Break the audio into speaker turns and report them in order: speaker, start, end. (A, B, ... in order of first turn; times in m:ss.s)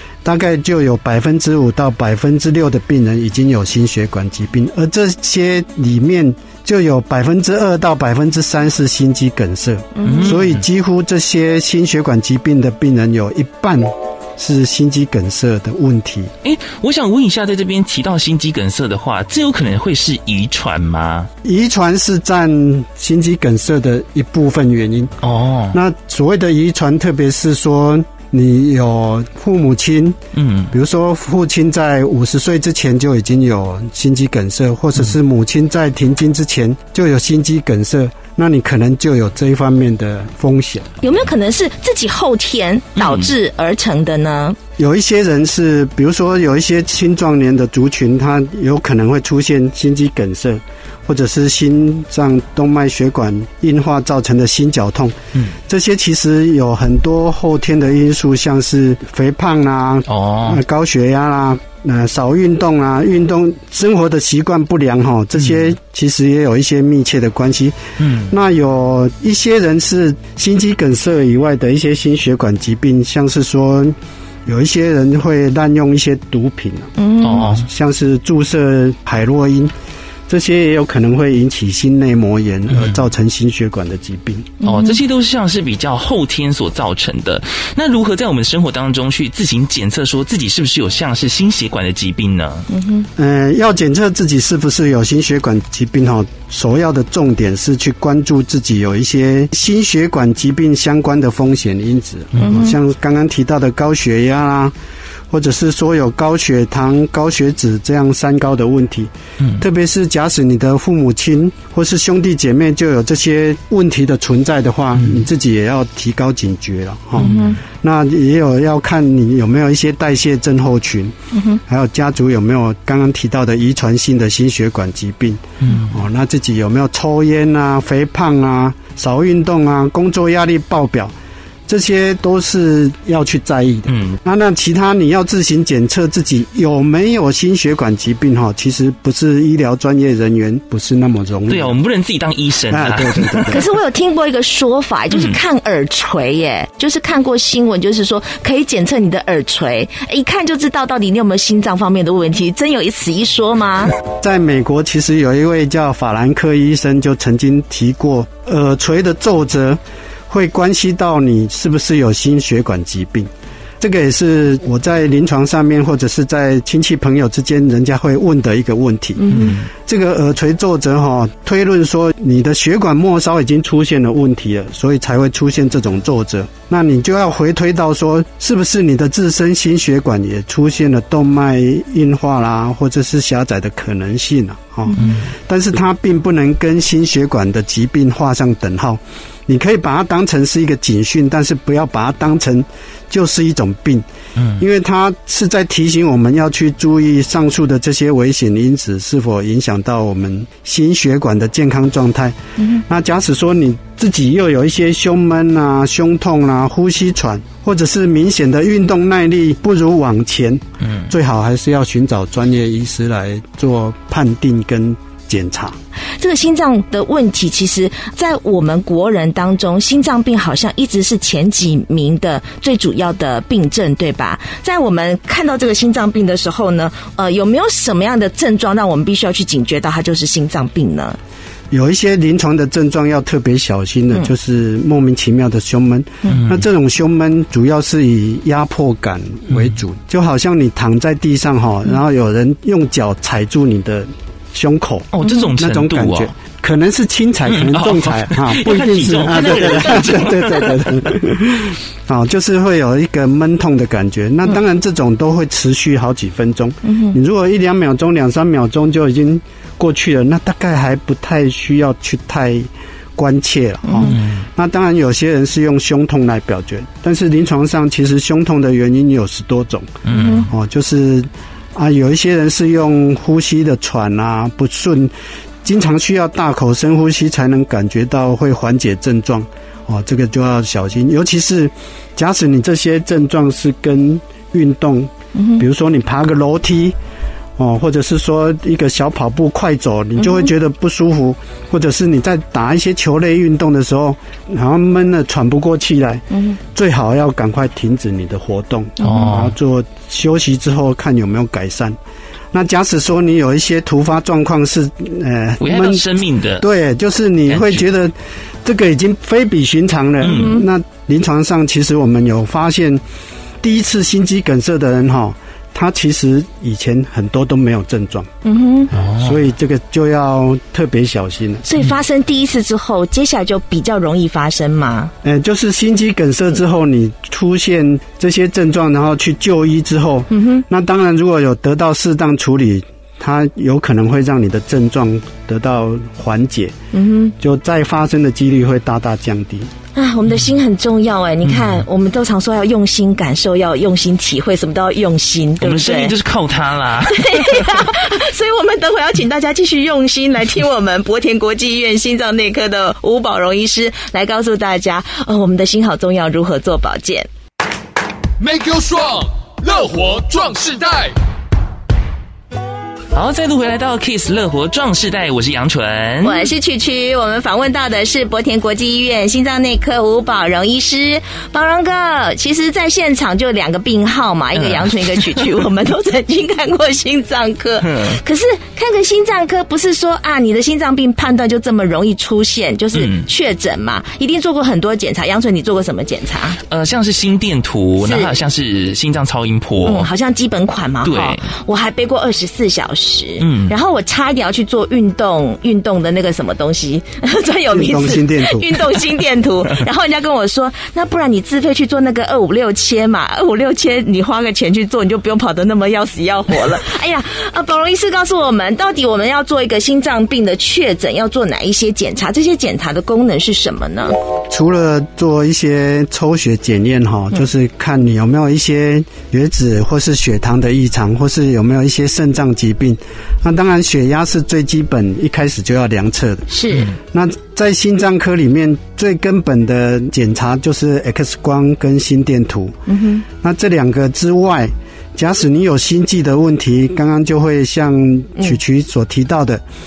0:00.2-0:16.3 A
0:10.0-0:10.4 B
0:10.0-0:10.6 C
0:16.4-0:21.3 C
0:21.4-0:25.1 A
0:25.2-0:25.8 C
0:25.7-0:30.2 A
0:30.3-0:30.7 C
0:30.7-0:40.9 A
0:41.0-0:44.6 B
0:43.0-0:43.3 C
0:44.8-1:19.7 A
1:00.1-1:00.6 C
1:08.0-1:08.3 C
1:17.0-1:17.5 B
1:17.2-1:17.6 C
1:20.3-1:24.5 A
1:22.7-1:23.0 C
1:24.6-1:25.0 B
1:24.6-1:32.7 C
1:32.7-1:33.1 B
1:33.2-1:44.7 A
1:42.4-1:42.8 B
1:45.3-2:01.2 A
1:57.2-1:57.6 B
1:57.2-1:57.5 C
2:01.3-2:01.6 B
2:01.7-2:11.1 A
2:05.6-2:06.0 C
2:11.7-2:21.8 A
2:13.9-2:14.2 C
2:21.5-2:23.6 C
2:22.7-2:23.6 A
2:23.5-2:33.9 B
2:25.1-2:25.4 C
2:34.0-3:14.0 A
2:49.2-2:49.5 B
2:49.3-2:49.7 C
3:04.9-3:05.2 B
3:05.0-3:05.3 C
3:14.4-3:14.6 C
3:14.6-3:35.8 A
3:22.6-3:22.8 B
3:36.2-3:51.2 B
3:51.7-4:47.0 A
3:56.3-3:56.7 C
4:05.1-4:06.3 C
4:07.5-4:11.0 C
4:16.8-4:17.2 B
4:23.9-4:24.1 B
4:24.0-4:24.5 C
4:30.0-4:30.5 C
4:30.1-4:30.5 B
4:45.4-4:45.6 B
4:47.6-5:02.0 A
4:50.2-4:50.5 B
4:56.3-4:56.6 B
4:59.0-4:59.3 B
4:59.0-4:59.5 C
5:02.5-5:13.0 A
5:05.6-5:06.6 C
5:07.5-5:07.8 C
5:10.2-5:10.6 C
5:10.3-5:10.6 B
5:13.6-5:18.3 A
5:18.4-5:18.9 B
5:18.9-5:21.6 A
5:19.0-5:19.4 C
5:21.6-5:25.1 B
5:25.2-5:36.8 A
5:30.3-5:30.6 B
5:36.9-5:37.3 B
5:37.4-5:39.7 A
5:40.0-5:46.1 B
5:41.5-5:41.8 C
5:45.6-5:47.8 C
5:47.1-5:57.3 B
5:58.4-6:01.1 D
6:03.1-6:06.5 C
6:06.2-6:26.6 B
6:14.6-6:15.4 C
6:17.9-6:18.2 C
6:23.0-6:23.3 C
6:26.7-6:30.1 C
6:28.0-6:28.3 B
6:29.8-6:54.2 B
6:31.0-6:31.4 C
6:33.4-6:33.7 C
6:37.7-6:38.8 A
6:54.5-7:06.5 A
7:06.5-7:06.9 B
7:07.1-7:12.8 A
7:12.9-7:13.2 B
7:13.3-7:19.6 A